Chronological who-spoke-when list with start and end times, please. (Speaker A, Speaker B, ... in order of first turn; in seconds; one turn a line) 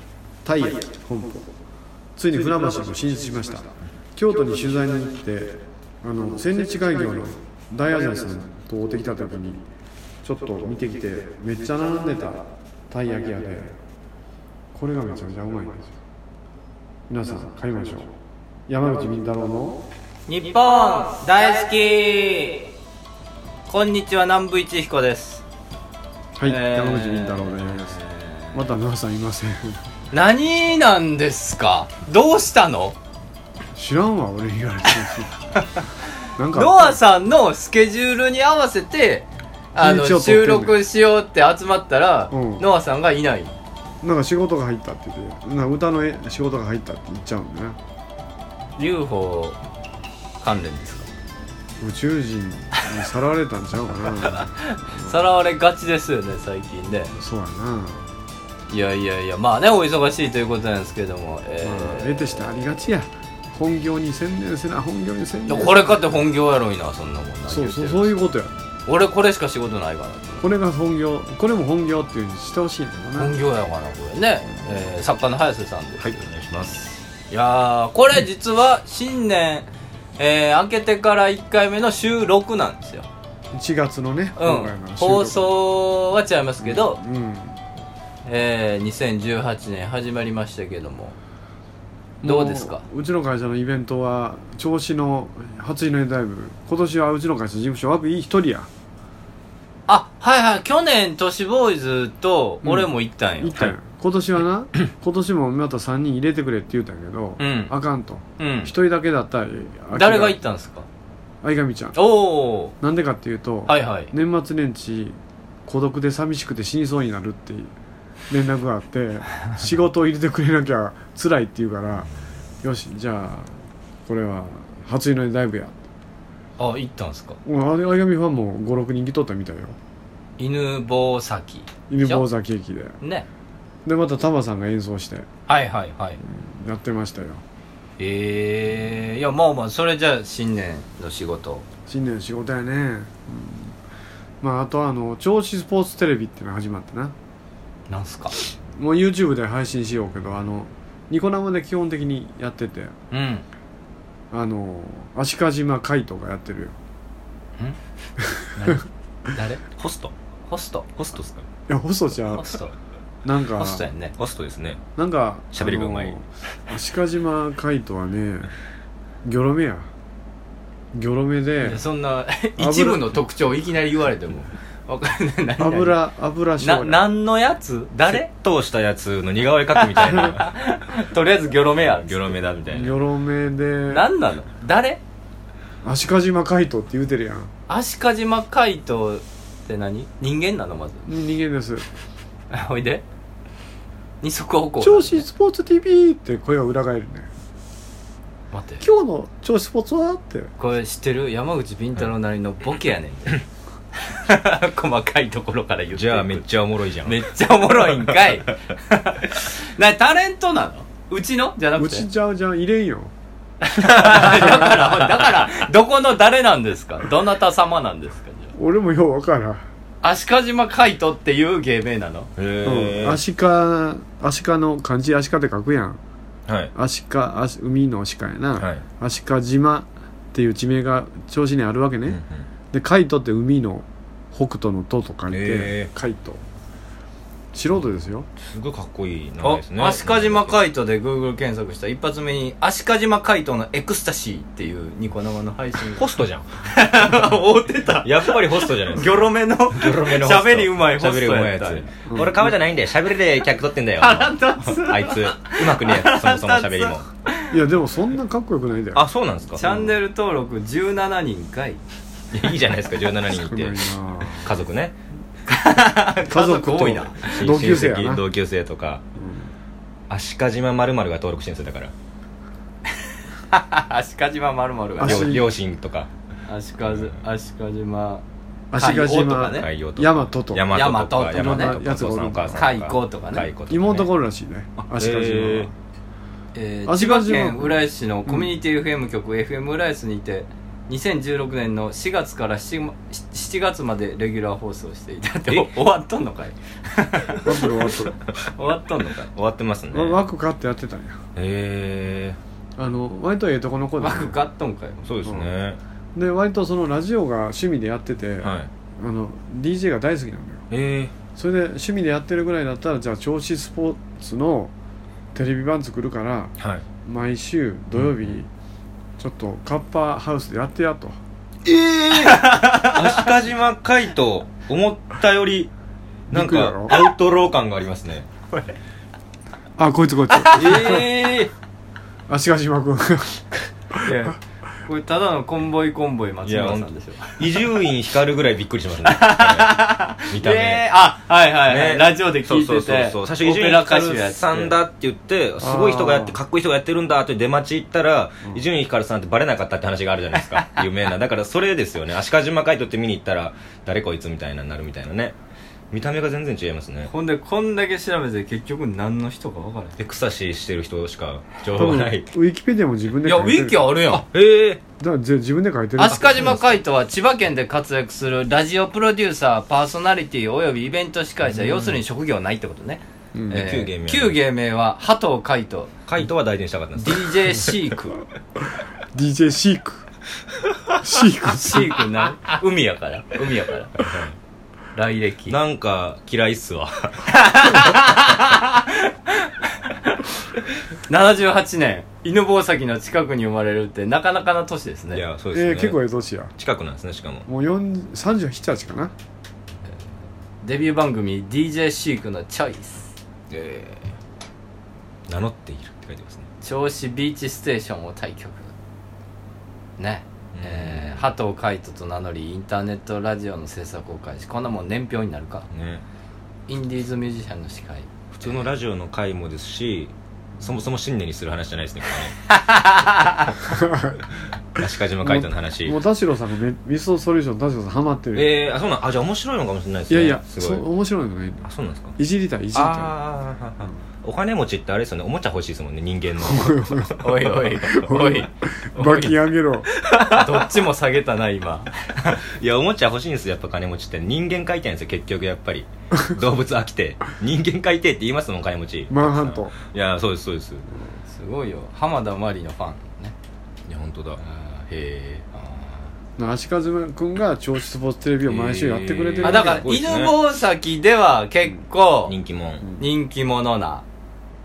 Speaker A: 0.4-1.5
Speaker A: 2.1-9.6
Speaker A: 10.2-13.8
Speaker A: 14.7-16.0
Speaker A: 17.1-18.1
Speaker A: 18.7-19.9
Speaker B: 20.3-22.7
Speaker B: 23.7-25.4
Speaker A: 26.3-28.0
Speaker B: 26.4-28.6
Speaker A: 28.5-29.8
Speaker B: 30.1-33.0
Speaker A: 33.7-35.4
Speaker A: 36.4-37.0
Speaker B: 36.5-43.5
Speaker A: 39.8-40.8
Speaker A: 42.3-42.6
Speaker A: 44.0-47.8
Speaker B: 48.8-49.6
Speaker B: 50.4-51.1
Speaker A: 51.8-55.2
Speaker B: 54.2-57.1
Speaker A: 57.1-58.1
Speaker B: 58.7-62.5
Speaker A: 61.6-66.2
Speaker B: 65.5-68.1
Speaker A: 67.5-68.6
Speaker B: 68.9-70.5
Speaker A: 70.4-73.3
Speaker B: 73.1-76.2
Speaker C: 76.0-77.0
Speaker B: 77.3-83.1
Speaker A: 83.5-85.5
Speaker B: 84.4-87.0
Speaker A: 86.6-87.6
Speaker B: 88.2-91.2
Speaker A: 92.2-98.7
Speaker B: 92.2-92.8
Speaker B: 99.9-103.7
Speaker A: 102.6-110.4
Speaker B: 107.4-107.7
Speaker B: 108.4-108.7
Speaker B: 109.9-110.9
Speaker A: 111.4-112.0
Speaker B: 112.0-112.7
Speaker A: 112.8-117.7
Speaker B: 113.7-114.1
Speaker A: 118.3-122.1
Speaker A: 122.6-125.8
Speaker B: 126.6-127.4
Speaker A: 127.4-129.8
Speaker B: 130.4-132.2
Speaker A: 131.9-133.0
Speaker B: 133.0-133.3
Speaker A: 133.8-135.3
Speaker B: 135.5-136.2
Speaker A: 136.2-137.4
Speaker B: 138.0-141.7
Speaker A: 141.9-143.8
Speaker A: 144.4-147.1
Speaker B: 147.9-148.4
Speaker A: 148.7-152.9
Speaker B: 153.1-153.4
Speaker A: 154.3-156.8
Speaker A: 158.2-158.5
Speaker B: 158.5-159.6
Speaker C: 159.8-160.1
Speaker B: 160.5-160.9
Speaker C: 161.0-161.5
Speaker A: 161.7-162.6
Speaker B: 162.3-162.7
Speaker A: 163.2-163.9
Speaker B: 163.5-164.1
Speaker C: 164.2-164.8
Speaker A: 165.0-168.5
Speaker C: 165.5-166.2
Speaker A: 169.2-169.9
Speaker A: 170.9-171.8
Speaker B: 171.6-176.0
Speaker A: 172.6-173.2
Speaker A: 175.6-177.0
Speaker B: 176.6-178.3
Speaker C: 178.1-180.5
Speaker B: 179.8-182.4
Speaker C: 181.8-183.0
Speaker A: 182.7-184.1
Speaker B: 183.9-185.0
Speaker A: 185.8-187.5
Speaker B: 187.7-191.1
Speaker A: 191.1-191.9
Speaker B: 192.5-193.0
Speaker B: 194.2-195.2
Speaker A: 194.8-197.3
Speaker B: 198.5-198.8
Speaker A: 198.8-200.5
Speaker B: 200.6-203.4
Speaker B: 204.1-206.4
Speaker C: 205.9-207.2
Speaker B: 207.0-212.1
Speaker A: 211.7-213.1
Speaker B: 213.6-218.5
Speaker A: 218.5-219.7
Speaker B: 220.0-222.3
Speaker C: 222.4-223.2
Speaker A: 222.6-226.0
Speaker C: 226.5-226.7
Speaker A: 226.7-232.2
Speaker C: 228.6-228.8
Speaker C: 232.1-232.4
Speaker A: 232.7-236.4
Speaker C: 235.3-235.9
Speaker A: 237.5-238.3
Speaker C: 238.4-240.6
Speaker B: 239.4-246.1
Speaker C: 245.9-246.5
Speaker B: 246.7-251.9
Speaker C: 248.0-257.1
Speaker A: 252.1-252.5
Speaker B: 254.0-257.4
Speaker A: 257.5-259.0
Speaker C: 258.9-259.6
Speaker A: 259.6-259.9
Speaker B: 259.6-261.8
Speaker C: 262.3-264.9
Speaker A: 263.3-264.6
Speaker B: 265.5-267.4
Speaker A: 266.3-268.2
Speaker C: 266.8-269.0
Speaker A: 269.1-269.5
Speaker C: 270.1-271.9
Speaker B: 273.5-275.3
Speaker A: 275.0-275.5
Speaker C: 275.0-276.1
Speaker B: 276.5-279.7
Speaker C: 276.9-277.1
Speaker A: 278.7-280.8
Speaker C: 279.5-284.1
Speaker B: 280.7-281.8
Speaker A: 281.3-282.7
Speaker B: 282.5-283.5
Speaker A: 283.7-285.7
Speaker C: 284.8-285.7
Speaker B: 286.5-297.6
Speaker A: 286.9-288.5
Speaker A: 297.4-298.2
Speaker B: 298.5-299.3
Speaker C: 299.3-300.2
Speaker A: 299.9-301.2
Speaker C: 301.4-302.4
Speaker A: 302.8-304.3
Speaker B: 304.0-305.1
Speaker C: 305.0-305.8
Speaker A: 306.1-310.6
Speaker C: 308.4-308.7
Speaker C: 310.7-311.1
Speaker A: 311.4-314.7
Speaker A: 315.3-316.5
Speaker C: 316.6-316.8
Speaker A: 317.0-318.5
Speaker C: 317.9-318.3
Speaker A: 319.2-321.2
Speaker C: 321.6-325.7
Speaker B: 322.1-323.0
Speaker A: 326.3-326.9
Speaker C: 326.3-328.3
Speaker A: 329.8-331.1
Speaker B: 330.4-331.5
Speaker C: 330.6-331.1
Speaker A: 332.3-334.3
Speaker B: 334.0-337.4
Speaker C: 336.4-340.8
Speaker B: 339.0-344.7
Speaker C: 341.6-355.3
Speaker A: 345.6-346.4
Speaker C: 355.9-357.1
Speaker B: 357.1-359.9
Speaker C: 360.0-362.3
Speaker A: 361.8-363.9
Speaker B: 363.2-364.2
Speaker C: 364.1-364.8
Speaker A: 365.0-366.8
Speaker B: 366.0-375.9
Speaker C: 371.5-372.0
Speaker A: 373.3-373.7
Speaker C: 373.5-374.4
Speaker C: 376.1-377.8
Speaker B: 377.0-378.1
Speaker A: 379.1-380.0
Speaker A: 381.0-382.0
Speaker B: 381.6-384.0
Speaker C: 384.0-384.3
Speaker B: 384.9-385.6
Speaker C: 385.5-387.3
Speaker B: 387.3-390.2
Speaker B: 391.1-395.2
Speaker C: 395.1-396.0
Speaker A: 395.5-396.5
Speaker C: 396.6-397.4
Speaker A: 397.4-399.1
Speaker B: 400.6-403.1
Speaker C: 403.5-404.2
Speaker C: 405.3-406.4
Speaker B: 406.6-408.7
Speaker B: 410.0-415.7
Speaker C: 410.5-411.3
Speaker C: 415.7-416.0
Speaker B: 416.7-418.7
Speaker C: 418.4-422.4
Speaker B: 422.5-423.6
Speaker A: 423.7-424.2
Speaker C: 424.7-426.0
Speaker A: 425.2-428.6
Speaker C: 428.3-430.9
Speaker A: 430.1-433.2
Speaker C: 431.6-432.2
Speaker C: 432.7-437.9
Speaker A: 436.4-437.2
Speaker B: 437.2-439.3
Speaker A: 437.9-439.9
Speaker C: 439.1-439.3
Speaker B: 440.0-442.4
Speaker C: 442.3-450.9
Speaker A: 449.1-449.7
Speaker B: 451.3-453.3
Speaker C: 453.9-454.4
Speaker B: 454.4-456.1
Speaker A: 456.4-459.9
Speaker C: 458.4-460.4
Speaker B: 459.4-462.3
Speaker C: 462.2-462.8
Speaker B: 463.0-464.0